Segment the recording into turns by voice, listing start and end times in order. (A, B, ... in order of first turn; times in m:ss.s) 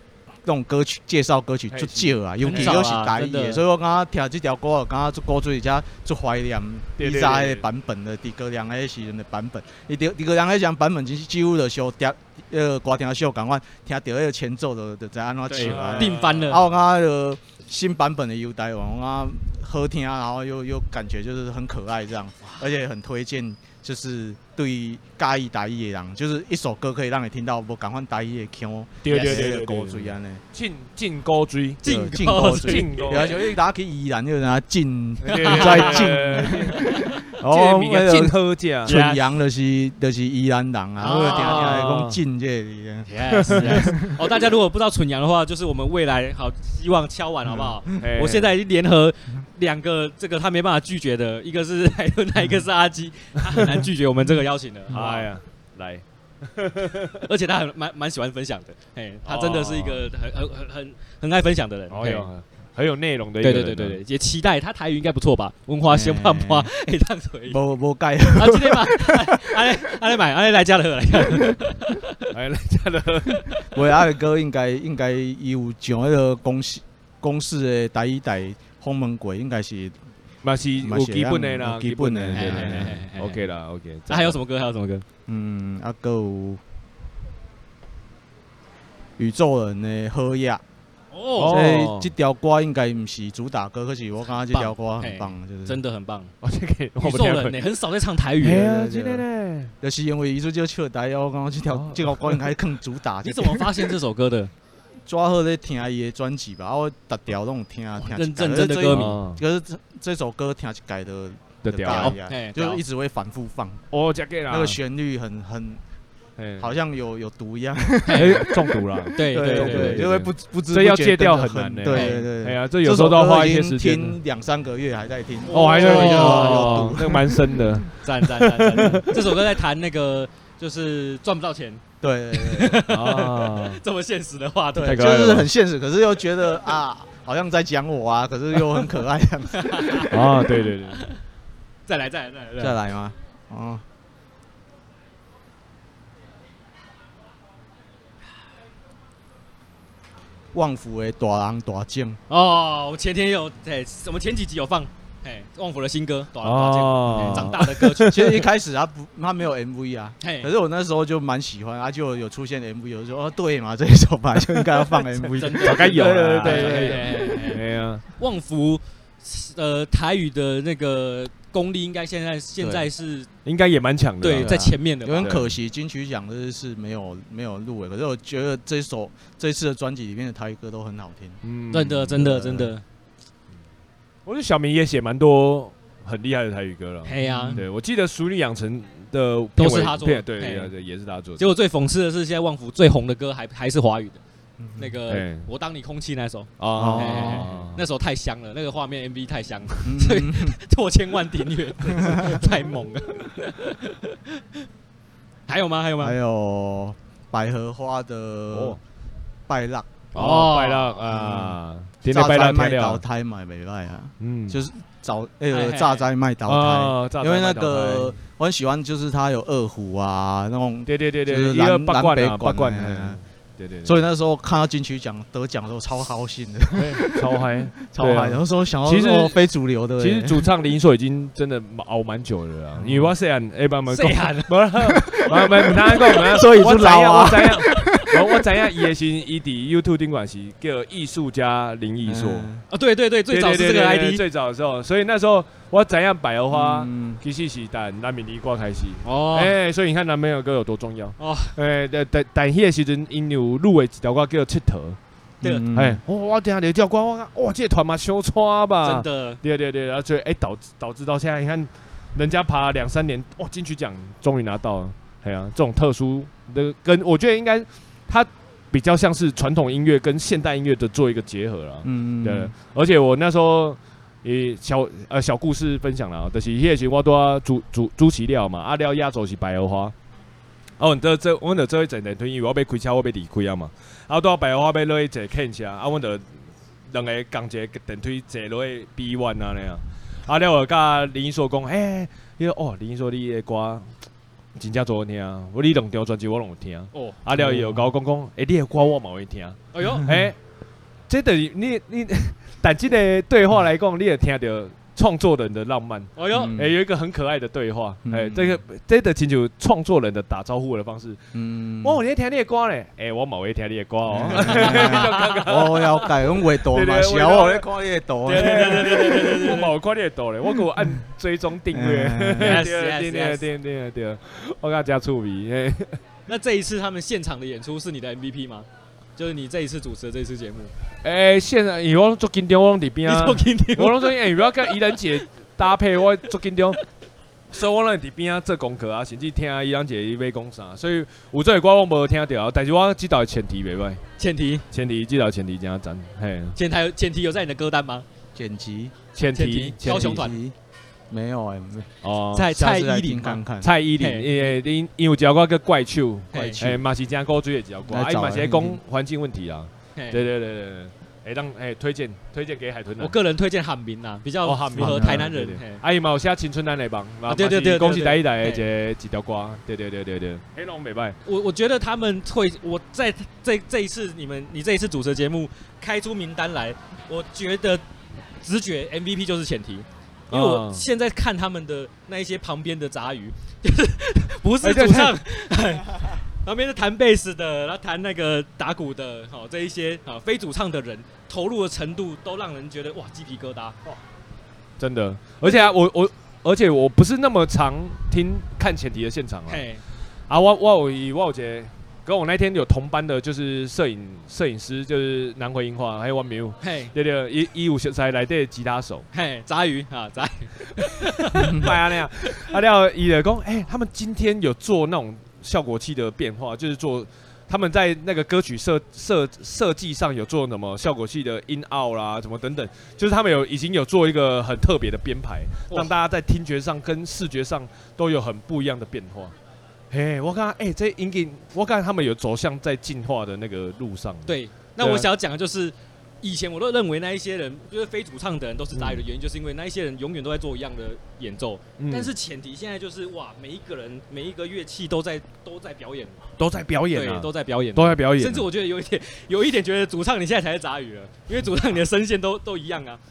0:00.4-0:30.4 A
0:01.7-0:02.9 B
0:02.5-0:03.6 C
0:07.0-0:07.6 B
0:15.5-0:16.6 C
0:15.6-0:16.6 B
0:29.0-0:33.4 B
0:29.1-0:29.4 C
0:31.8-0:33.4 C
0:31.8-0:44.2 A
0:35.2-0:36.8 B
0:35.3-0:36.8 C
0:37.4-0:39.0 B
0:38.9-0:39.2 C
0:41.0-0:41.8 C
0:41.1-0:42.2 B
0:43.1-0:55.3 C
0:43.5-0:43.9 B
0:48.0-0:48.5 B
0:54.9-0:57.2 B
0:57.2-1:02.3 C
0:59.2-1:00.0 B
1:01.9-1:04.0 B
1:03.4-1:07.6 C
1:05.9-1:06.7 A
1:07.5-1:09.7 A
1:08.3-1:12.1 C
1:12.3-1:13.6 B
1:13.7-1:20.0 A
1:20.4-1:24.4 B
1:20.8-1:22.9 A
1:22.3-1:23.4 C
1:24.1-1:25.0 C
1:25.3-1:26.6 A
1:29.2-1:30.6 A
1:31.1-1:31.6 C
1:31.4-1:32.1 B
1:31.5-1:35.8 A
1:34.5-1:36.3 C
1:36.4-1:37.6 B
1:37.0-1:38.6 C
1:38.4-1:39.7 B
1:38.5-1:39.3 A
1:39.8-1:43.9 A
1:41.7-1:42.4 B
1:43.2-1:44.5 C
1:45.1-1:53.8 A
1:48.0-1:49.2 C
1:48.9-1:49.4 B
1:51.6-1:52.2 B
1:51.9-1:52.8 C
1:53.9-1:54.8 B
1:54.5-1:55.8 A
1:56.4-1:56.7 B
1:56.6-2:07.6 A
1:58.0-1:58.4 C
1:58.2-2:04.2 B
1:59.2-2:00.0 C
2:01.9-2:02.3 C
2:05.5-2:06.9 C
2:05.5-2:09.2 B
2:08.0-2:15.1 C
2:12.0-2:12.8 A
2:12.9-2:13.8 B
2:14.8-2:20.3 A
2:14.9-2:15.5 B
2:19.5-2:21.2 C
2:20.1-2:21.0 B
2:21.9-2:22.8 C
2:22.6-2:23.8 A
2:30.5-2:32.2 A
2:32.3-2:38.2 C
2:36.4-2:38.4 B
2:37.1-2:47.2 A
2:40.2-2:40.5 C
2:44.5-2:45.1 B
2:45.4-2:47.6 C
2:45.6-2:48.0 B
2:48.2-2:53.3 C
2:53.4-2:54.6 B
2:54.2-2:55.3 C
2:54.4-3:01.4 A
2:55.2-2:55.6 B
3:01.4-3:02.7 B
3:01.7-3:02.8 C
3:04.3-3:11.5 B
3:07.1-3:07.6 C
3:07.2-3:07.6 A
3:09.6-3:10.7 C
3:11.4-3:14.2 C
3:14.6-3:15.0 A
3:14.8-3:24.5 C
3:15.1-3:15.5 B
3:16.6-3:17.8 B
3:16.7-3:17.6 A
3:19.8-3:20.6 A
3:21.9-3:22.5 A
3:25.5-3:26.2 C
3:26.0-3:28.8 A
3:28.5-3:28.8 B
3:29.5-3:30.0 A
3:30.1-3:31.0 C
3:30.2-3:33.0 B
3:31.1-3:43.2 A
3:34.2-3:34.6 B
3:35.5-3:36.1 C
3:36.5-3:38.2 B
3:40.9-3:44.0 B
3:43.8-3:50.5 A
3:46.7-3:49.4 B
3:50.0-4:02.5 B
3:52.8-3:53.1 A
3:53.9-3:56.3 C
3:55.4-3:58.4 A
4:02.0-4:02.6 A
4:02.7-4:04.2 C
4:03.3-4:15.0 B
4:06.5-4:07.2 A
4:09.0-4:09.6 C
4:11.2-4:11.6 C
4:15.4-4:16.0 A
4:15.7-4:40.0 B
4:18.8-4:19.4 C
4:31.8-4:32.5 A
4:40.8-4:46.2 B
4:46.9-4:53.9 B
4:54.6-5:00.4 B
4:56.9-4:57.2 C
4:57.4-4:57.8 A
4:59.7-5:00.1 C
5:01.1-5:11.2 B
5:06.2-5:06.5 C
5:06.3-5:06.8 A
5:08.1-5:08.6 A
5:11.3-5:12.0 A
5:11.8-5:17.7 B
5:14.1-5:19.0 A
5:14.3-5:15.3 C
5:18.3-5:19.7 C
5:18.3-5:26.0 B
5:21.7-5:22.6 A
5:22.4-5:23.4 C
5:26.3-5:30.7 C
5:31.0-5:36.8 B
5:33.1-5:35.0 C
5:37.5-5:44.0 B
5:44.2-5:44.6 C
5:44.7-5:46.6 B
5:46.6-5:48.1 C
5:48.4-5:49.0 A
5:49.2-5:50.3 B
5:49.3-5:50.4 C
5:49.8-5:50.6 A
5:51.1-5:51.9 A
5:52.0-5:52.5 B
5:52.3-5:53.4 C
5:52.5-5:53.7 A
5:53.6-6:03.2 B
5:54.0-5:54.3 C
5:56.3-5:56.8 C
5:57.9-5:58.8 A
6:00.0-6:00.2 C
6:03.0-6:05.8 C
6:04.4-6:11.2 B
6:04.8-6:05.3 A
6:07.3-6:08.6 C
6:11.3-6:17.8 C
6:18.4-6:33.8 C
6:20.3-6:20.8 B
6:24.6-6:25.2 B
6:34.8-6:39.6 B
6:39.5-6:39.8 C
6:40.3-6:49.1 B
6:46.6-6:46.9 C
6:49.1-6:51.7 C
6:51.2-7:09.4 B
6:51.4-6:51.8 A
7:09.9-7:15.1 B
7:14.3-7:26.2 C
7:18.8-7:19.0 B
7:21.8-7:22.1 B
7:26.4-7:28.5 B
7:26.9-7:33.0 C